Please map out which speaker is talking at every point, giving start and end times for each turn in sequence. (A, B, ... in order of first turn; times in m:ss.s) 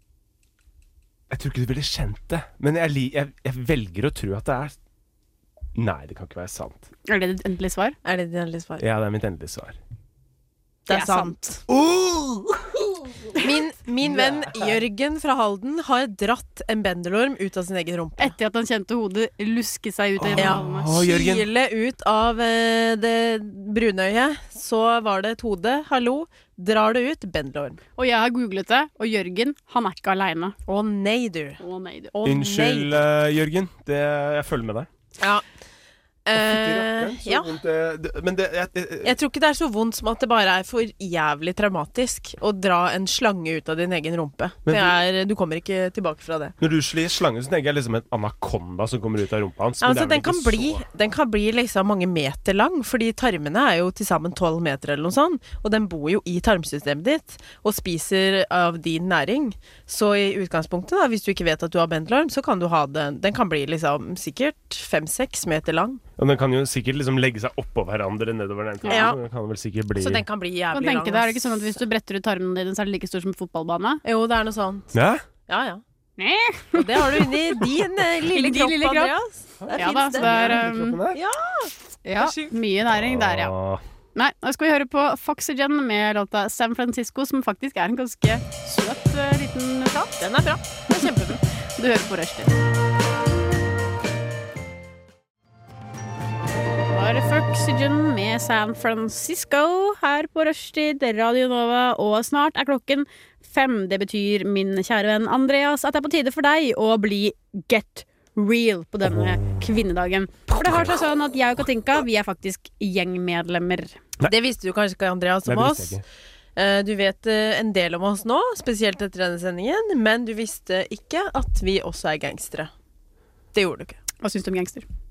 0:01.3-0:04.8 A
0:05.8-0:06.9 A
0:07.1-0:08.0 B
0:08.0-0:08.8 C
0:08.8-0:09.8 A
0:10.9-0:11.5 C
0:10.9-0:11.6 B
0:11.7-0:12.8 A
0:13.4-0:18.4 C
0:14.0-0:14.8 A
0:18.2-0:20.9 B
0:20.2-0:21.5 A
0:20.4-0:27.8 C
0:28.0-0:30.6 B
0:30.7-0:31.6 C
0:31.6-0:32.1 B
0:32.1-0:32.9 C
0:32.2-0:34.9 A
0:35.2-0:35.4 C
0:36.3-0:37.5 C
0:36.4-0:39.2 A
0:39.0-0:46.6 C
0:44.7-0:45.0 A
0:46.6-0:50.8 A
0:49.8-1:06.0 C
1:06.2-1:10.2 A
1:08.9-1:09.2 C
1:10.0-1:11.8 C
1:10.7-1:14.0 B
1:14.0-1:15.8 C
1:14.9-1:15.2 A
1:16.2-1:17.6 B
1:16.8-1:22.5 C
1:18.3-1:19.1 B
1:19.6-1:21.2 A
1:19.8-1:21.0 B
1:22.0-1:23.5 B
1:22.9-1:23.8 A
1:24.2-1:30.3 B
1:30.1-1:31.4 C
1:30.9-1:32.6 B
1:36.9-1:54.0 B
1:49.0-1:49.6 A
1:50.5-1:51.0 A
1:54.2-1:56.0 C
1:55.4-1:56.0 A
1:56.6-2:02.7 C
2:03.5-2:04.0 C
2:04.2-2:04.8 B